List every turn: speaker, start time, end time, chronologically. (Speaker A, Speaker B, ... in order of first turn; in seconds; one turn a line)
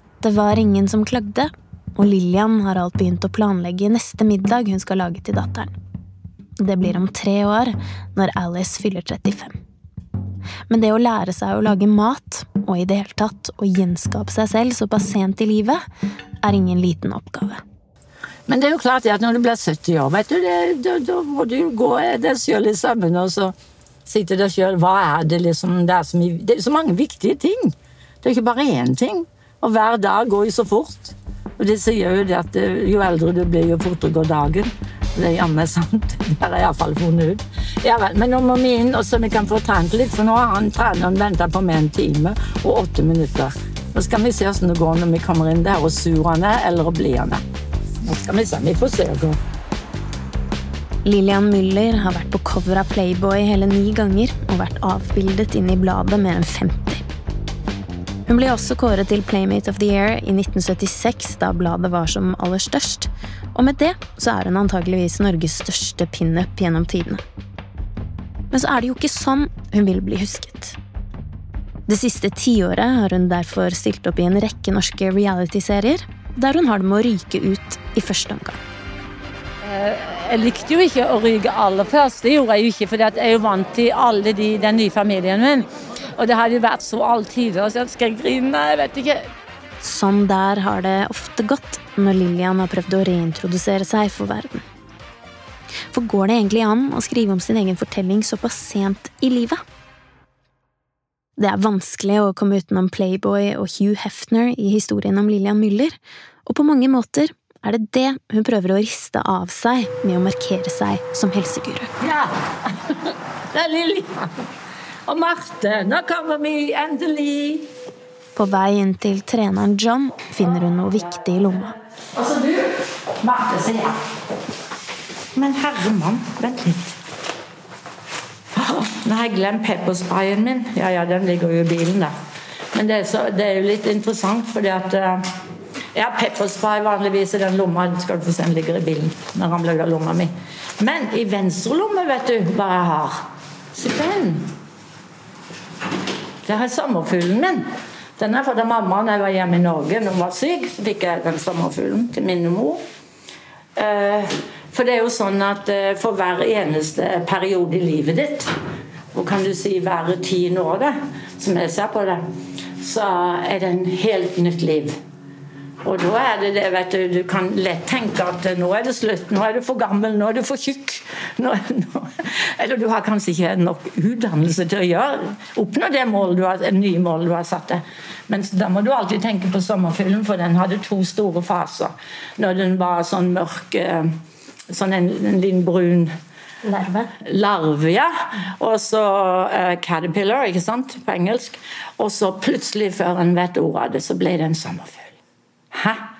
Speaker A: 0.2-5.7
Speaker A: 6.6-9.6
Speaker A: 10.7-15.8
Speaker A: 16.4-17.6
Speaker B: 18.5-23.5
Speaker B: 24.1-47.4
Speaker B: 48.0-49.4
Speaker A: 51.0-57.0
Speaker A: 58.3-67.2
Speaker A: 68.5-70.8
Speaker A: 71.9-78.6
Speaker B: 79.6-89.3
Speaker A: 89.8-94.7
Speaker A: 95.9-99.6
Speaker A: 101.4-111.9
Speaker B: 112.0-114.5
Speaker B: 115.1-117.7
Speaker A: 118.4-121.7
Speaker B: 122.2-124.0
Speaker B: 125.3-127.0
Speaker B: 128.6-132.1
Speaker B: 132.7-135.2
Speaker B: 135.9-144.5
Speaker B: 146.4-147.7
Speaker B: 148.2-152.8
Speaker B: 153.8-158.5
Speaker B: 159.1-162.2
Speaker B: 162.8-165.0
Speaker B: 165.8-184.1
Speaker B: 184.7-186.1
Speaker B: 187.2-195.2
Speaker B: 195.7-196.0